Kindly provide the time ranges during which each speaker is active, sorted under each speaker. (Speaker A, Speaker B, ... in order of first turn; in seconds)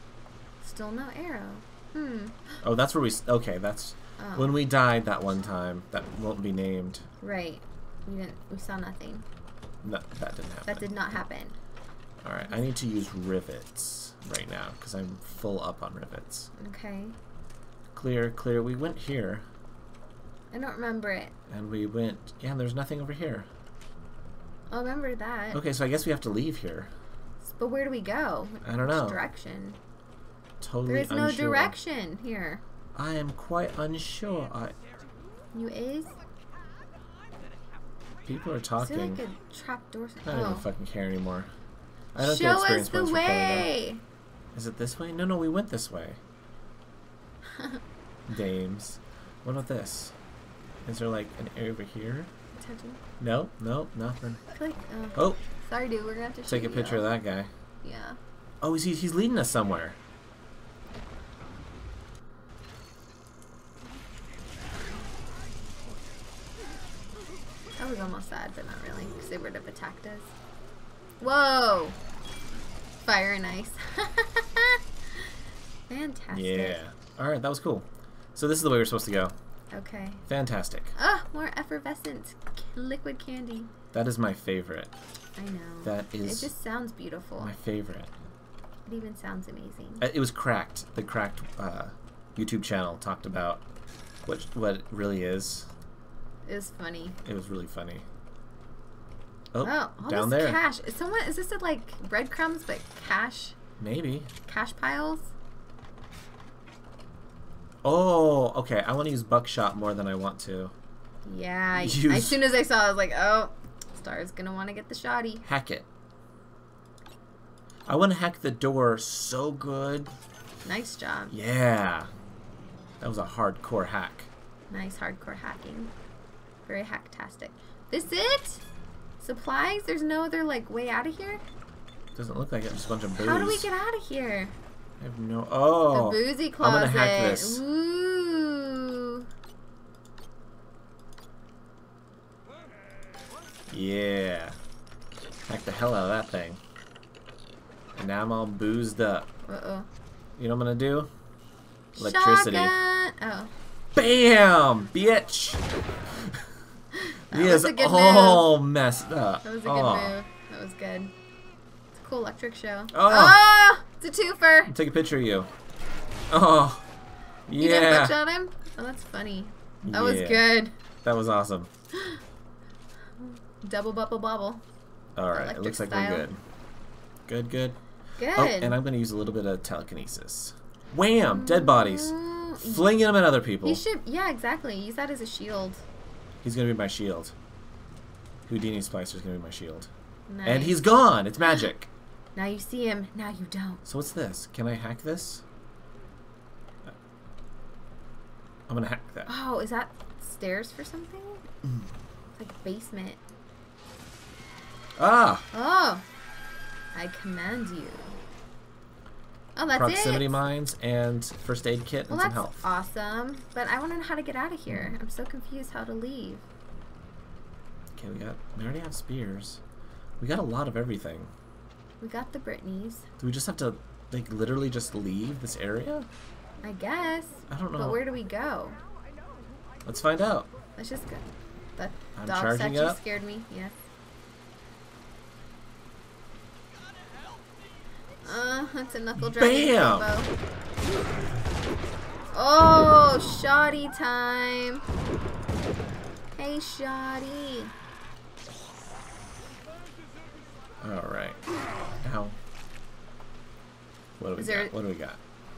Speaker A: 0.6-2.6, 4.2-4.5, 7.2-9.2, 10.7-11.6, 16.6-17.1, 20.5-21.3, 24.7-25.6, 27.4-29.8, 30.9-32.6, 35.5-36.1, 38.8-40.7, 42.2-44.0, 47.5-47.8, 52.6-53.0, 54.5-57.1, 57.8-58.2, 67.8-70.3, 71.2-72.0, 73.0-75.3, 75.9-76.8, 79.7-80.2, 81.0-83.7, 85.4-87.5, 88.9-90.0, 96.4-97.2, 99.6-103.5, 104.5-105.3, 111.2-115.4, 120.6-121.3, 124.7-125.9, 126.6-128.6, 129.2-131.4, 133.2-134.5, 135.9-139.2, 149.4-149.9, 151.9-153.5, 156.9-158.5, 159.4-161.1, 161.9-164.7, 167.6-170.7, 171.9-172.2, 173.2-174.6, 175.3-176.3, 178.2-178.8, 181.2-182.9, 183.6-185.8, 190.3-190.9, 192.3-193.8, 199.3-201.4, 202.4-203.2, 205.5-206.0, 206.9-208.2, 209.6-210.4, 212.1-216.4, 222.0-223.1, 226.6-228.8, 230.8-231.2, 231.8-233.8, 238.2-240.3, 242.3-244.8, 246.3-247.7, 254.4-254.7
Speaker B: 2.6-7.0, 9.8-10.8, 12.2-16.5, 17.9-19.4, 21.5-23.5, 25.5-26.9, 28.6-29.2, 30.6-31.7, 32.9-34.7, 38.2-39.2, 40.2-41.5, 42.1-43.7, 44.5-46.2, 48.3-50.1, 50.8-52.3, 53.2-54.4, 55.1-55.4, 56.5-57.5, 58.6-60.0, 76.3-79.3, 80.3-80.9, 83.9-84.9, 85.8-86.5, 87.4-88.1, 90.0-93.6, 94.2-95.7, 97.2-98.0, 99.5-100.6, 103.8-104.3, 107.8-110.7, 111.8-112.4, 115.4-115.9, 117.9-120.1, 121.3-122.1, 123.0-124.3, 132.1-133.7, 135.0-137.6, 143.7-144.6, 145.5-146.6, 147.9-149.3, 150.4-151.1, 151.9-152.8, 153.9-156.4, 157.3-160.2, 162.9-163.4, 164.7-165.5, 166.3-166.8, 167.5-168.2, 169.8-170.4, 171.0-171.7, 175.2-176.4, 177.3-177.8, 178.3-183.8, 186.4-187.3, 188.4-189.9, 190.4-191.9, 193.8-195.4, 198.7-199.3, 205.0-205.5, 209.7-212.6, 214.7-214.9, 217.9-219.6, 220.2-221.3, 223.2-226.1, 227.5-228.0, 229.8-230.5, 232.2-233.0, 239.2-240.1, 250.8-251.4, 252.0-252.3, 254.2-255.2